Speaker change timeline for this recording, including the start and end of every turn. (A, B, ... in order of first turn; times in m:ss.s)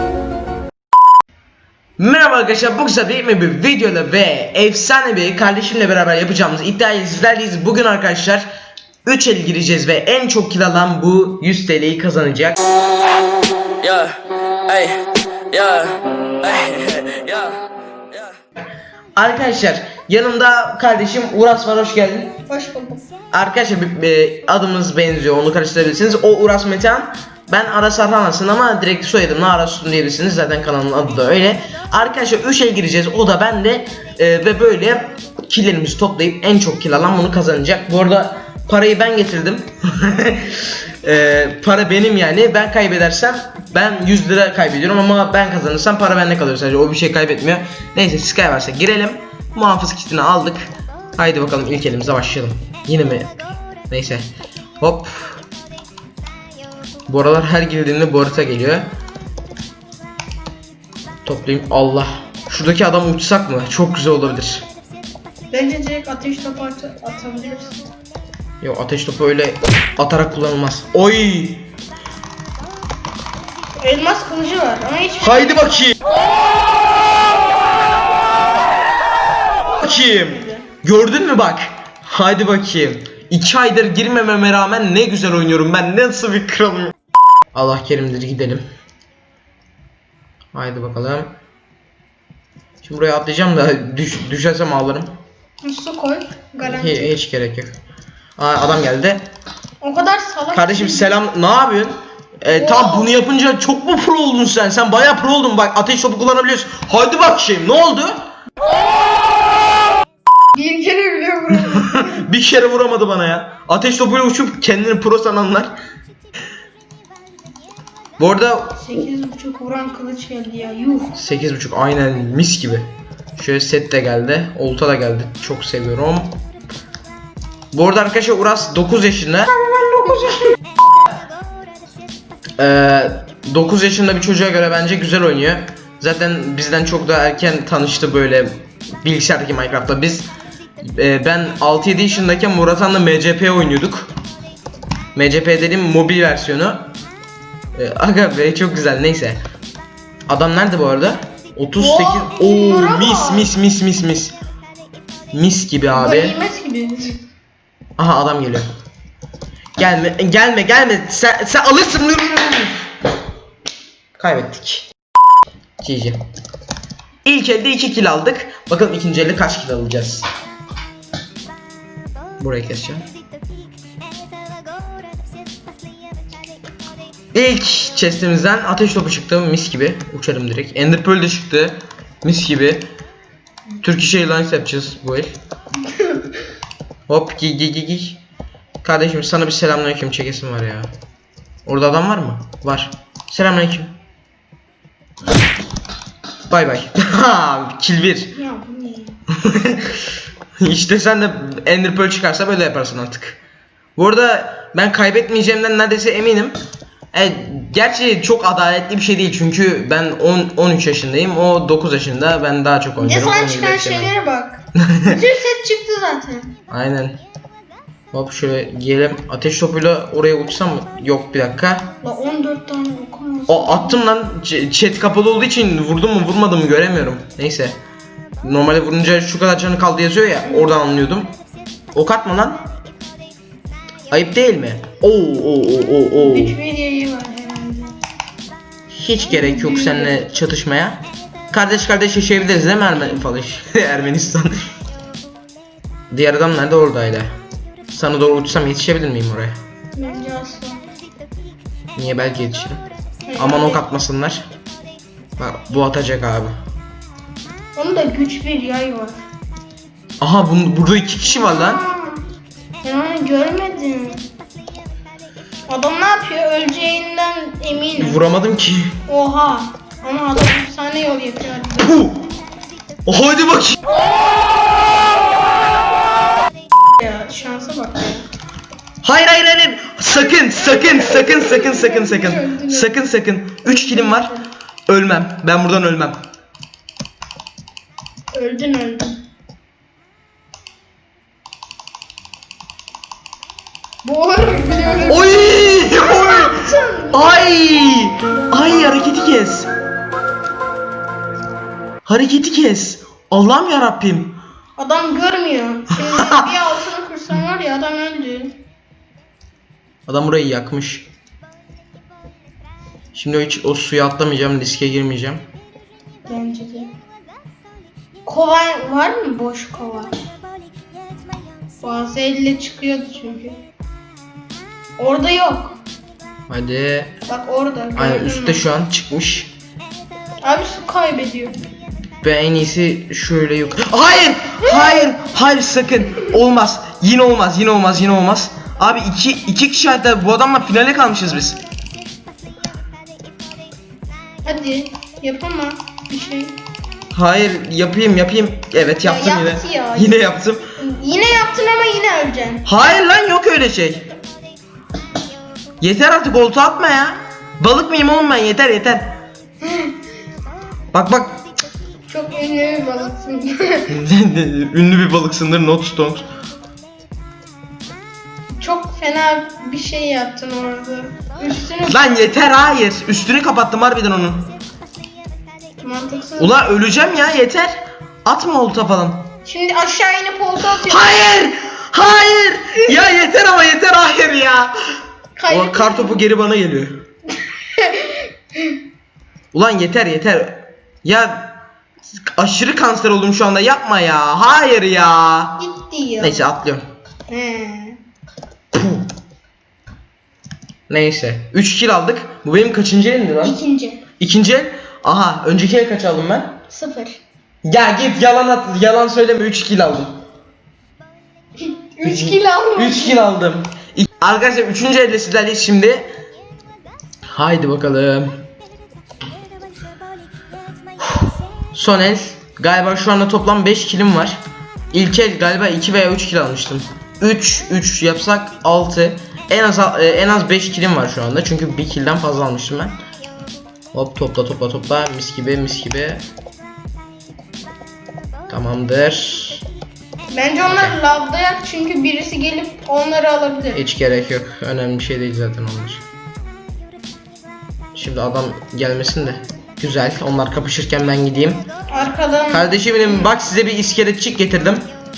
0:02.0-0:08.5 A
0:09.0-0:12.6 A
0:13.8-0:17.6 B
0:19.2-0:22.4 A
0:22.5-0:23.0 C
0:23.3-0:50.6 A
0:51.2-0:54.2 A
0:54.8-0:55.4 A
0:57.1-0:58.9 A
1:01.2-1:04.6 A
1:05.5-1:07.8 C
1:08.6-1:11.7 A
1:13.8-1:15.7 C
1:15.2-1:16.0 A
1:19.7-1:20.6 C
1:19.8-1:26.9 A
1:27.5-1:28.6 A
1:30.5-1:31.3 A
1:32.8-1:35.1 A
1:35.6-1:37.1 C
1:36.6-1:37.8 A
1:38.4-1:39.2 A
1:39.8-1:41.1 C
1:40.5-1:48.2 A
1:42.5-1:43.1 C
1:50.5-1:52.2 C
1:51.5-1:55.7 A
1:58.2-1:58.8 A
1:58.8-2:01.1 C
2:01.1-2:06.4 A
2:07.7-2:09.5 A
2:09.5-2:10.5 C
2:12.6-2:20.3 A
2:20.8-2:24.1 A
2:25.1-2:26.9 A
2:27.7-2:29.4 A
2:30.3-2:34.3 A
2:31.8-2:33.5 C
2:35.3-2:36.4 A
2:35.9-2:37.2 C
2:38.0-2:38.7 A
2:39.8-2:42.9 A
2:44.2-2:44.9 A
2:45.8-2:46.2 A
2:47.2-2:50.3 A
2:52.4-2:53.0 A
2:57.3-3:02.9 A
3:03.8-3:05.4 A
3:05.9-3:06.2 C
3:07.1-3:08.2 A
3:08.8-3:10.9 A
3:11.6-3:13.9 A
3:16.5-3:18.3 A
3:18.3-3:19.2 C
3:19.4-3:20.0 A
3:20.6-3:23.4 A
3:24.0-3:26.6 A
3:27.1-3:34.1 A
3:33.0-3:36.5 C
3:36.7-3:37.2 A
3:38.1-3:41.9 A
3:42.0-3:44.0 C
3:43.5-3:47.8 A
3:48.4-3:51.3 A
3:50.4-3:50.7 C
3:51.9-3:52.6 A
3:54.1-3:56.6 A
3:56.1-3:58.0 C
3:58.9-4:04.6 A
3:59.3-4:00.2 C
4:06.1-4:07.3 A
4:07.9-4:09.6 A
4:09.9-4:10.8 C
4:12.0-4:12.8 A
4:13.2-4:13.8 C
4:13.4-4:14.4 A
4:15.4-4:16.5 A
4:17.8-4:19.2 C
4:20.2-4:21.8 A
4:21.3-4:22.2 C
4:22.8-4:24.3 C
4:25.7-4:28.2 C
4:28.0-4:29.0 A
4:29.1-4:32.0 C
4:31.8-4:32.3 A
4:33.0-4:33.8 A
4:37.0-4:38.2 C
4:39.0-4:44.3 A
4:40.8-4:42.9 C
4:43.6-4:44.5 C
4:44.9-4:46.2 A
4:48.3-4:49.2 C
4:54.0-4:57.4 C
4:55.1-4:59.7 A
5:02.0-5:04.4 A
5:04.8-5:08.6 C
5:06.0-5:06.5 A
5:10.1-5:11.1 A
5:13.1-5:15.4 A
5:16.2-5:16.9 C
5:18.2-5:20.1 C
5:21.8-5:23.6 C
5:25.0-5:25.8 C
5:26.5-5:27.2 A
5:27.2-5:28.6 C
5:27.9-5:29.5 A
5:30.4-5:31.6 C
5:32.2-5:41.6 A
5:44.4-5:46.6 C
5:47.1-5:50.6 A
5:49.0-5:50.2 C
5:50.8-5:52.6 C
5:52.6-5:54.1 A
5:55.8-5:59.2 A
5:59.6-5:59.9 C
6:00.9-6:01.4 A
6:02.1-6:03.9 C
6:03.9-6:06.2 A
6:08.6-6:12.2 C
6:11.8-6:14.5 A
6:15.8-6:16.5 C
6:16.4-6:19.3 A
6:19.4-6:21.1 C
6:20.8-6:24.7 A
6:25.4-6:26.2 C
6:25.5-6:27.0 A
6:27.7-6:28.7 C
6:29.5-6:31.6 A
6:32.3-6:35.6 A
6:35.6-6:36.4 C
6:36.2-6:36.8 A
6:37.3-6:38.0 C
6:38.7-6:39.1 A
6:40.9-6:43.6 A
6:43.4-6:44.0 C
6:44.2-6:46.6 A
6:46.7-6:47.2 C
6:47.6-6:50.2 A
6:51.6-6:53.2 C
6:52.0-6:56.1 A
6:57.3-6:58.3 A
7:01.7-7:04.4 A
7:04.9-7:13.0 A
7:13.9-7:16.2 A
7:18.5-7:19.6 A
7:20.3-7:23.8 C
7:20.6-7:21.0 A
7:23.7-7:26.0 A
7:27.9-7:31.7 A
7:31.9-7:33.3 C
7:32.5-7:34.8 A